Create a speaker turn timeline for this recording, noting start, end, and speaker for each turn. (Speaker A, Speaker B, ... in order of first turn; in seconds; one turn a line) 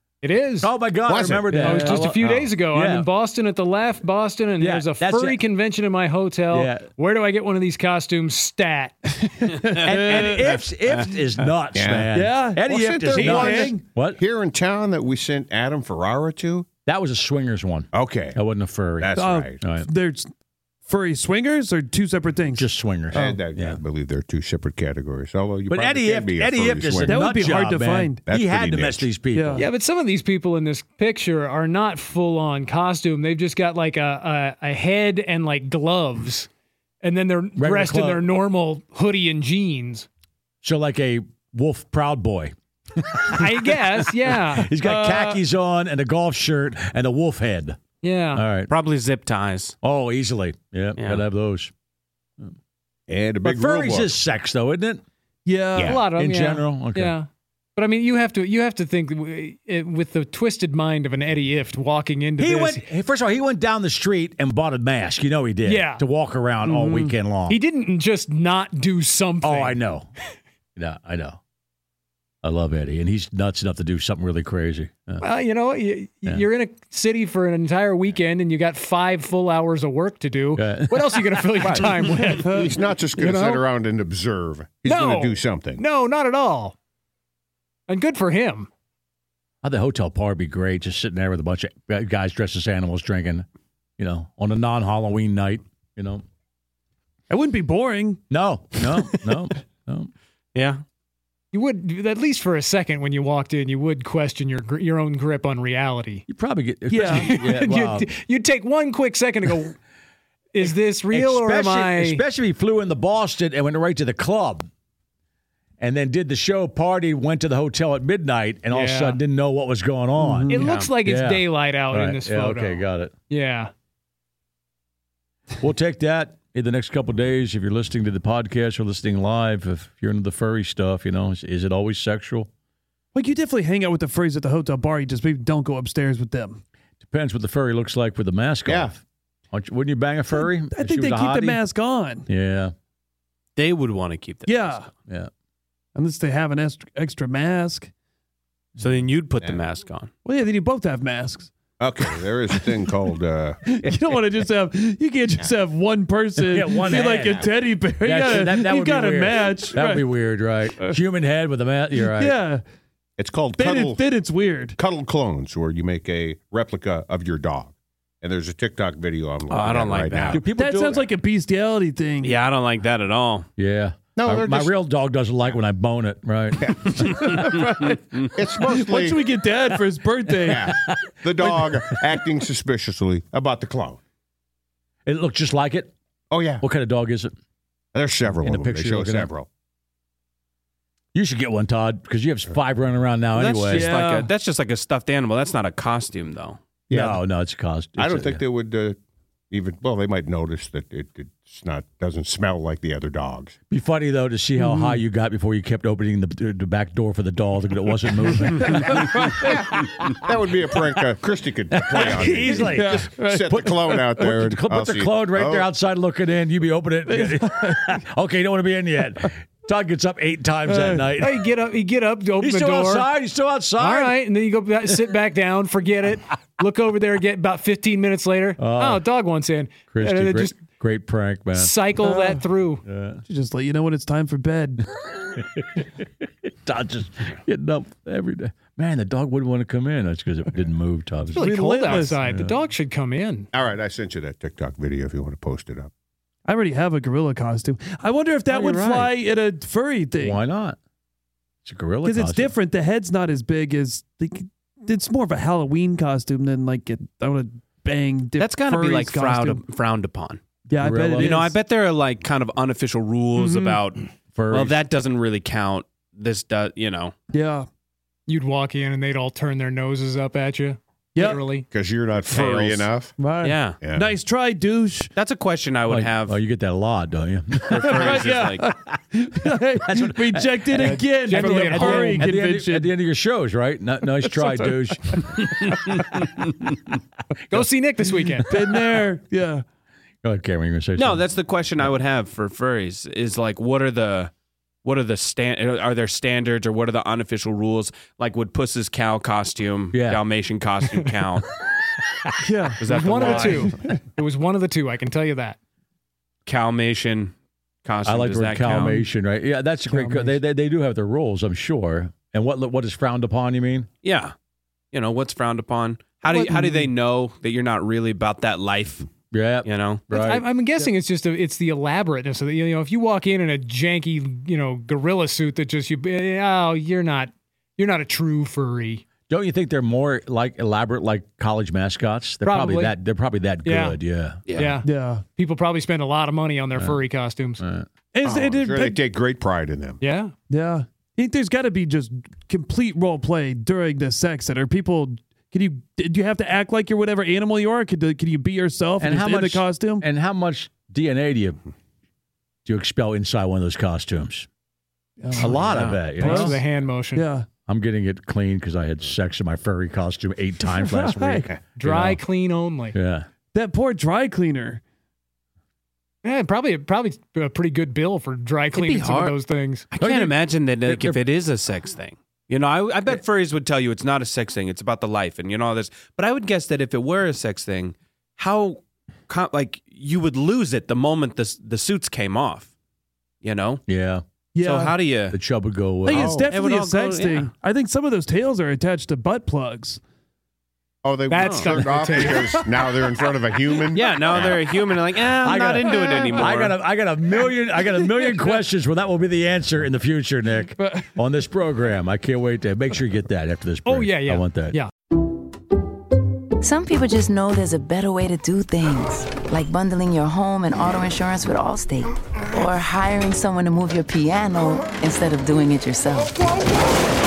Speaker A: 0.2-0.7
Speaker B: 0.6-3.1
Speaker C: 1.1-1.6
Speaker D: 1.5-2.0
Speaker A: 1.5-9.1
Speaker B: 4.6-5.4
Speaker B: 6.5-6.8
Speaker E: 9.5-11.1
Speaker D: 9.6-10.4
Speaker B: 9.8-14.2
Speaker C: 11.7-16.6
Speaker D: 12.1-13.8
Speaker B: 16.9-19.9
Speaker C: 17.9-18.4
Speaker C: 19.0-19.6
Speaker D: 19.1-20.3
Speaker D: 20.9-23.4
Speaker B: 22.5-23.8
Speaker C: 23.1-27.2
Speaker B: 25.7-29.7
Speaker D: 27.0-28.2
Speaker C: 28.3-29.1
Speaker D: 29.3-29.6
Speaker A: 29.6-36.5
Speaker A: 37.0-40.1
Speaker B: 37.6-38.2
Speaker B: 40.6-47.8
Speaker A: 43.3-44.7
Speaker D: 44.8-45.4
Speaker A: 48.0-48.4
Speaker B: 48.3-48.7
Speaker E: 48.7-49.7
Speaker B: 49.8-51.7
Speaker E: 51.0-51.2
Speaker C: 53.1-54.1
Speaker B: 53.4-55.0
Speaker D: 55.5-56.0
Speaker A: 55.8-62.8
Speaker B: 55.9-57.1
Speaker B: 62.4-67.6
Speaker A: 65.6-66.0
Speaker D: 66.6-67.1
Speaker A: 67.5-69.8
Speaker B: 69.4-70.1
Speaker B: 70.8-71.4
Speaker B: 72.4-75.2
Speaker A: 75.2-82.6
Speaker B: 80.5-81.7
Speaker C: 81.6-81.9
Speaker D: 82.2-82.6
Speaker C: 82.4-85.8
Speaker A: 83.2-83.7
Speaker A: 84.8-86.7
Speaker A: 87.9-88.7
Speaker B: 89.6-93.5
Speaker B: 94.0-96.2
Speaker D: 97.3-98.2
Speaker B: 98.3-100.1
Speaker E: 100.5-100.8
Speaker A: 101.5-106.2
Speaker B: 106.3-108.1
Speaker D: 106.9-107.3
Speaker A: 107.1-109.8
Speaker A: 110.5-112.2
Speaker B: 111.1-114.7
Speaker B: 115.8-123.1
Speaker A: 118.7-119.2
Speaker D: 120.2-120.9
Speaker A: 120.5-123.7
Speaker B: 125.6-132.5
Speaker D: 133.1-136.6
Speaker B: 137.0-141.6
Speaker C: 138.7-138.9
Speaker D: 140.3-142.3
Speaker B: 142.3-142.7
Speaker E: 143.6-144.8
Speaker D: 144.4-144.9
Speaker D: 145.9-147.9
Speaker E: 148.8-150.1
Speaker B: 148.8-149.0
Speaker D: 150.2-151.5
Speaker C: 151.8-153.6
Speaker D: 152.5-152.9
Speaker D: 153.6-161.0
Speaker E: 153.8-154.2
Speaker B: 156.5-157.5
Speaker C: 156.9-157.4
Speaker B: 158.0-162.4
Speaker D: 162.0-162.6
Speaker C: 163.2-164.0
Speaker D: 163.6-164.8
Speaker C: 164.8-170.4
Speaker E: 169.5-170.4
Speaker B: 170.3-171.1
Speaker D: 170.5-172.4
Speaker E: 172.2-173.5
Speaker B: 173.6-177.2
Speaker C: 174.2-174.7
Speaker C: 176.6-177.0
Speaker D: 177.0-178.0
Speaker C: 178.3-179.2
Speaker D: 178.6-180.7
Speaker B: 180.5-182.2
Speaker C: 180.5-184.0
Speaker B: 185.1-185.9
Speaker C: 186.3-186.6
Speaker B: 186.6-187.3
Speaker C: 187.9-189.5
Speaker B: 188.3-189.3
Speaker B: 191.1-193.9
Speaker E: 193.3-196.6
Speaker D: 193.7-194.3
Speaker C: 196.9-197.2
Speaker B: 196.9-198.4
Speaker C: 198.0-199.0
Speaker C: 199.5-203.5
Speaker B: 203.7-210.1
Speaker D: 204.6-205.0
Speaker D: 209.1-209.5
Speaker C: 209.4-215.7
Speaker B: 211.7-213.1
Speaker D: 212.5-214.3
Speaker B: 214.2-221.4
Speaker D: 217.1-217.9
Speaker D: 220.7-221.1
Speaker A: 221.2-223.1
Speaker B: 222.4-224.2
Speaker A: 223.8-230.6
Speaker B: 228.6-229.0
Speaker B: 229.9-231.8
Speaker A: 231.5-232.8
Speaker D: 232.0-232.4
Speaker B: 232.8-233.2
Speaker D: 233.3-234.8
Speaker B: 235.3-235.9
Speaker B: 236.4-242.6
Speaker D: 241.3-242.2
Speaker A: 241.3-243.5
Speaker C: 243.5-245.9
Speaker D: 246.4-250.4
Speaker E: 248.5-249.1
Speaker B: 250.2-250.8
Speaker B: 251.6-252.5
Speaker D: 252.0-259.6
Speaker E: 258.4-260.4
Speaker D: 260.7-261.6
Speaker B: 260.7-261.4
Speaker E: 261.1-267.1
Speaker D: 263.4-263.8
Speaker B: 264.3-264.8
Speaker D: 267.3-267.7
Speaker A: 268.3-271.6
Speaker D: 271.1-271.5
Speaker C: 271.6-273.1
Speaker E: 272.2-272.9
Speaker D: 273.2-275.1
Speaker E: 273.4-273.8
Speaker C: 273.8-274.2
Speaker E: 275.1-276.4
Speaker B: 275.9-278.2
Speaker D: 277.6-282.9
Speaker E: 277.7-278.7
Speaker B: 279.8-286.2
Speaker A: 280.8-282.2
Speaker D: 284.2-284.8
Speaker A: 287.5-288.5
Speaker D: 288.4-289.6
Speaker B: 290.2-291.2
Speaker E: 290.9-294.3
Speaker E: 294.8-301.5
Speaker B: 299.9-300.2
Speaker D: 302.4-304.0
Speaker E: 302.8-303.7
Speaker A: 302.9-305.6
Speaker E: 306.4-307.3
Speaker E: 307.8-309.1
Speaker B: 308.0-313.9
Speaker D: 309.9-310.4
Speaker E: 314.0-314.3
Speaker E: 314.9-319.1
Speaker D: 316.3-316.8
Speaker B: 319.3-320.4
Speaker E: 319.6-320.0
Speaker A: 320.1-329.0
Speaker B: 329.3-334.8
Speaker A: 332.4-333.0
Speaker A: 333.6-334.0
Speaker E: 334.5-334.8
Speaker A: 334.5-337.6
Speaker D: 334.8-335.2
Speaker B: 337.6-337.9
Speaker D: 338.1-339.0
Speaker C: 338.2-340.0
Speaker A: 340.0-340.3
Speaker D: 340.5-350.1
Speaker B: 349.0-351.6
Speaker B: 352.6-354.5
Speaker D: 355.2-356.6
Speaker B: 355.4-356.6
Speaker E: 355.6-356.0
Speaker A: 356.2-357.3
Speaker D: 357.1-357.5
Speaker B: 357.7-362.2
Speaker D: 360.7-361.5
Speaker A: 361.8-362.9
Speaker B: 362.9-363.3
Speaker D: 363.5-364.8
Speaker A: 366.2-369.9
Speaker E: 368.7-369.4
Speaker E: 369.9-382.7
Speaker B: 370.0-371.2
Speaker E: 383.4-383.8
Speaker B: 383.9-384.2
Speaker D: 384.5-385.0
Speaker E: 384.6-385.4
Speaker B: 385.3-386.4
Speaker D: 386.0-390.0
Speaker C: 386.1-386.5
Speaker E: 386.5-387.5
Speaker C: 391.0-394.8
Speaker A: 391.3-392.6
Speaker E: 391.4-391.9
Speaker D: 392.2-392.9
Speaker E: 393.9-396.8
Speaker B: 395.3-404.8
Speaker D: 395.8-396.5
Speaker D: 398.0-398.6
Speaker D: 400.8-401.1
Speaker A: 403.9-404.9
Speaker F: 406.6-416.3